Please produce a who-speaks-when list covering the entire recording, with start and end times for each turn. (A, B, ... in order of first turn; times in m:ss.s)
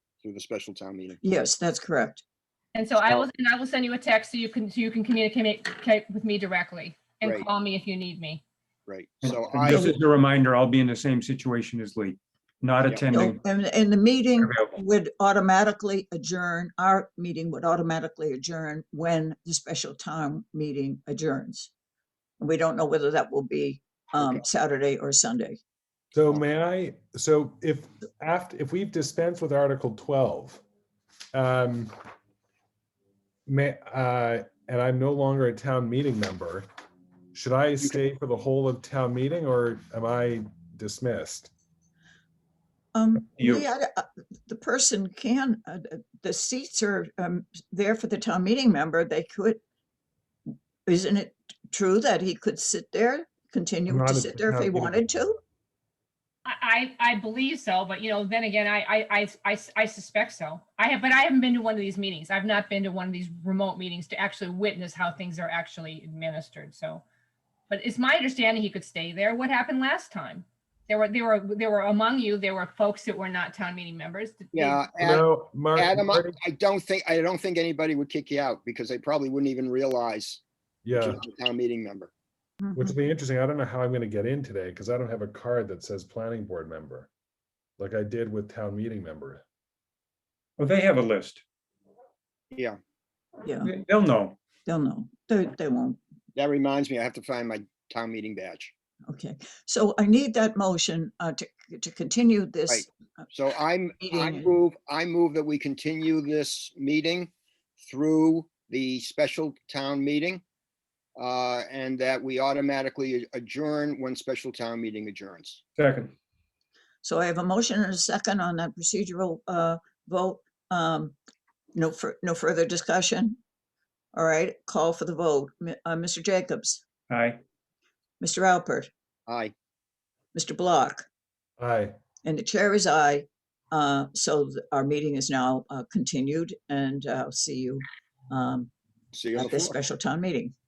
0:00.2-0:01.2 A
0:01.2-0:02.2 B
0:02.7-0:08.4 C
0:07.2-0:07.5 A
0:08.9-0:10.0 A
0:09.2-0:13.4 D
0:13.1-0:21.7 B
0:14.4-0:14.7 D
0:22.4-0:25.6 B
0:24.2-0:24.4 A
0:26.1-0:30.6 E
0:31.3-0:31.9 E
0:33.5-0:36.7 E
0:37.3-0:41.5 E
0:42.9-0:49.6 B
0:43.4-0:43.6 D
0:50.8-0:55.4 B
0:53.9-0:55.0 E
0:56.4-1:07.0 C
1:07.7-1:14.8 C
1:14.5-1:22.1 A
1:15.0-1:16.3 E
1:20.8-1:21.2 E
1:22.6-1:23.0 B
1:22.8-1:27.1 E
1:27.8-1:29.4 E
1:30.6-1:31.4 D
1:32.5-1:32.8 A
1:33.4-1:33.7 B
1:33.6-1:34.4 D
1:34.6-1:36.0 B
1:36.3-1:38.7 A
1:39.1-1:42.9 B
1:42.7-1:50.4 A
1:44.0-1:44.5 B
1:51.2-1:55.6 A
1:55.8-1:56.1 D
1:57.0-2:01.2 B
2:01.7-2:03.4 B
2:04.1-2:06.8 B
2:07.1-2:07.4 D
2:08.2-2:08.9 B
2:09.3-2:09.5 A
2:10.3-2:11.0 B
2:11.6-2:12.0 E
2:12.2-2:18.7 B
2:19.1-2:19.7 A
2:19.3-2:20.5 B